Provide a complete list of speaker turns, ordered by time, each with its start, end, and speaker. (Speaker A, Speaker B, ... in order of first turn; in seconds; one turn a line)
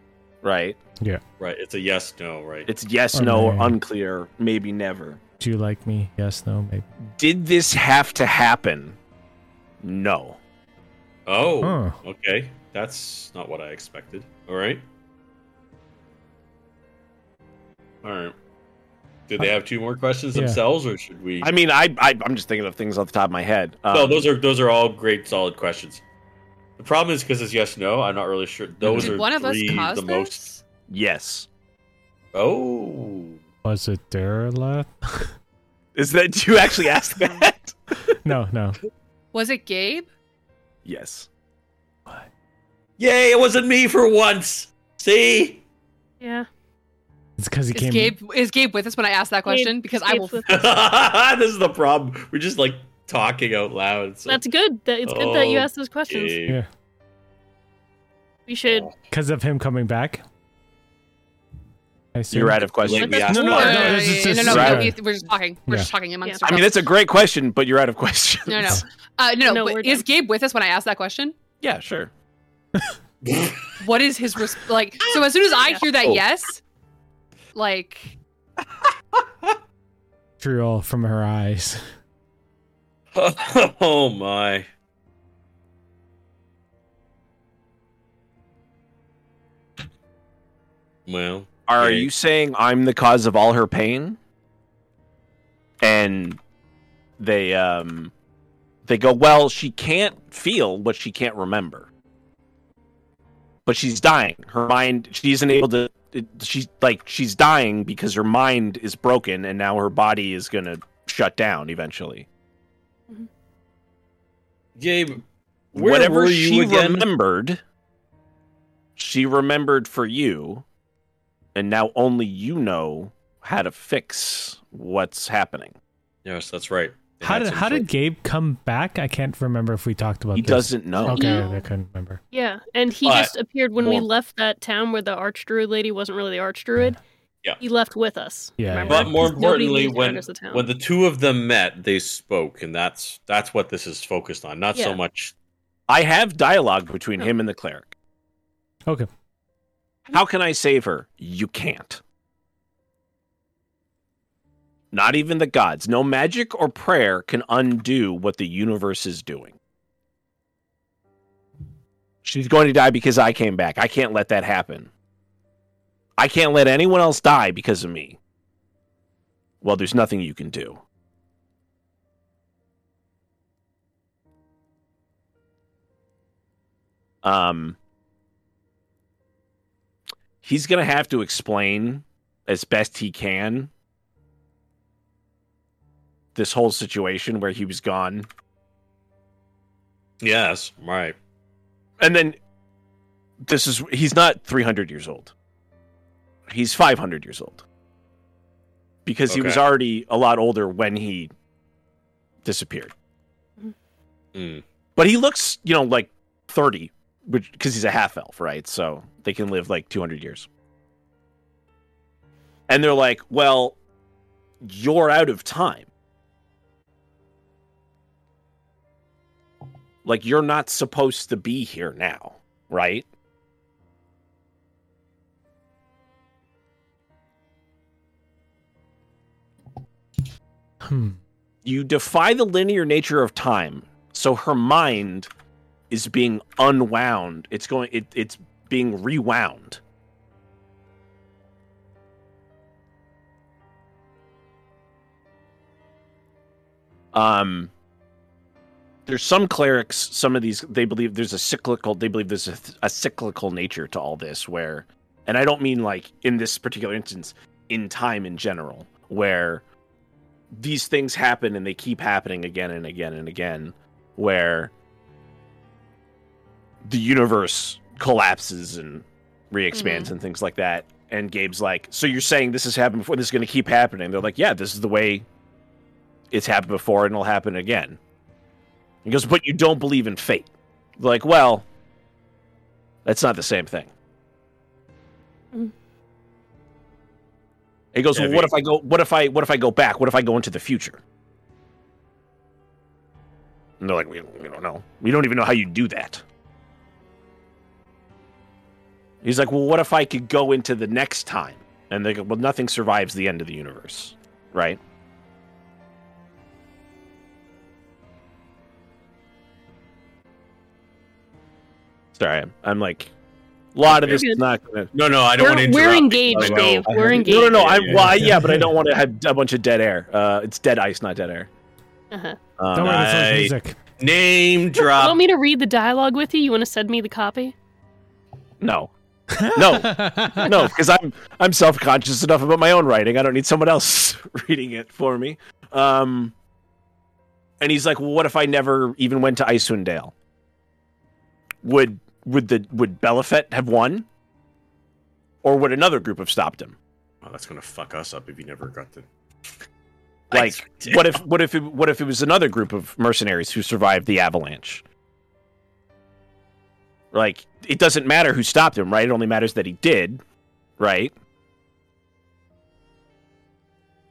Speaker A: 0.4-0.8
Speaker B: 1.4-2.7
Speaker A: 2.7-5.2
Speaker C: 3.1-3.8
Speaker C: 5.4-6.8
Speaker A: 7.0-9.0
Speaker A: 9.8-10.4
Speaker B: 11.3-14.8
Speaker C: 11.6-12.0
Speaker B: 18.0-18.4
Speaker B: 19.3-21.5
Speaker C: 20.3-20.6
Speaker A: 21.4-24.3
Speaker B: 23.9-26.0
Speaker B: 26.8-30.5
Speaker A: 28.8-29.2
Speaker D: 28.9-30.6
Speaker A: 30.9-31.5
Speaker B: 32.3-33.4
Speaker C: 33.6-35.3
Speaker A: 36.0-38.2
Speaker C: 38.2-38.8
Speaker D: 39.3-40.1
Speaker A: 40.9-41.3
Speaker B: 43.0-45.6
Speaker E: 46.2-46.5
Speaker C: 47.4-48.2
Speaker D: 47.7-50.7
Speaker E: 49.5-50.5
Speaker B: 50.5-54.4
Speaker E: 54.3-56.4
Speaker B: 55.0-56.6
Speaker E: 58.5-58.9
Speaker B: 58.7-59.0
Speaker C: 59.1-60.2
Speaker C: 62.1-65.0
Speaker A: 62.3-63.3
Speaker B: 62.8-64.5
Speaker E: 62.9-63.8
Speaker D: 63.5-66.9
Speaker A: 64.4-64.9
Speaker A: 66.4-68.8
Speaker D: 68.5-71.3
Speaker E: 69.4-70.0
Speaker A: 71.6-72.1
Speaker B: 73.2-73.8
Speaker D: 73.8-76.6
Speaker D: 77.5-78.2
Speaker C: 80.4-81.8
Speaker B: 83.2-84.7
Speaker B: 91.1-92.1
Speaker A: 91.7-94.2
Speaker A: 95.8-96.4
Speaker A: 97.2-98.1
Speaker A: 98.8-101.9
Speaker A: 103.7-112.3
Speaker B: 114.8-115.2
Speaker B: 115.7-117.1
Speaker A: 115.7-117.6
Speaker A: 119.0-120.7
Speaker A: 121.5-125.8
Speaker B: 126.2-127.9
Speaker C: 127.2-132.2
Speaker A: 130.3-131.4
Speaker E: 131.0-131.7
Speaker E: 132.3-137.0
Speaker B: 133.1-133.3
Speaker A: 133.8-134.1
Speaker E: 137.6-140.7
Speaker C: 138.6-139.4
Speaker B: 138.9-145.3
Speaker A: 145.9-147.9
Speaker A: 150.1-152.0
Speaker A: 154.9-159.6
Speaker A: 162.2-164.9
Speaker A: 166.2-168.2
Speaker A: 169.6-170.8
Speaker A: 177.2-177.8
Speaker A: 180.4-183.7
Speaker A: 186.3-188.3
Speaker B: 190.2-191.2
Speaker A: 192.0-192.4
Speaker A: 193.4-195.3
Speaker A: 196.5-197.6
Speaker A: 199.1-201.3
Speaker B: 199.3-199.6
Speaker A: 202.4-202.9
Speaker B: 204.3-204.6
Speaker A: 205.0-210.5
Speaker A: 212.7-213.8
Speaker A: 214.6-215.9
Speaker A: 220.0-223.1
Speaker C: 230.8-231.2
Speaker A: 231.7-235.3
Speaker A: 235.9-239.8
Speaker A: 247.1-247.7
Speaker A: 249.1-259.6
Speaker A: 260.5-264.7
Speaker A: 266.9-275.3
Speaker D: 269.7-270.1
Speaker A: 276.3-278.0
Speaker A: 279.1-281.7
Speaker A: 283.1-283.9
Speaker A: 287.9-291.0
Speaker B: 288.1-288.5
Speaker A: 293.8-296.2
Speaker A: 299.2-304.8
Speaker A: 312.1-313.1
Speaker A: 313.8-314.9
Speaker E: 313.9-314.4
Speaker B: 314.9-318.2
Speaker E: 315.4-317.6
Speaker A: 316.3-321.5
Speaker C: 318.1-318.7
Speaker E: 322.1-322.4
Speaker A: 322.6-323.1
Speaker B: 322.7-325.2
Speaker C: 322.7-323.8
Speaker E: 324.8-327.6
Speaker A: 328.6-328.9
Speaker C: 329.4-330.6
Speaker A: 329.5-336.4
Speaker A: 337.6-340.1
Speaker A: 341.6-344.1
Speaker A: 345.4-346.8
Speaker B: 347.2-349.1
Speaker B: 350.3-351.2
Speaker A: 350.3-354.8
Speaker A: 357.1-360.2
Speaker A: 360.8-361.1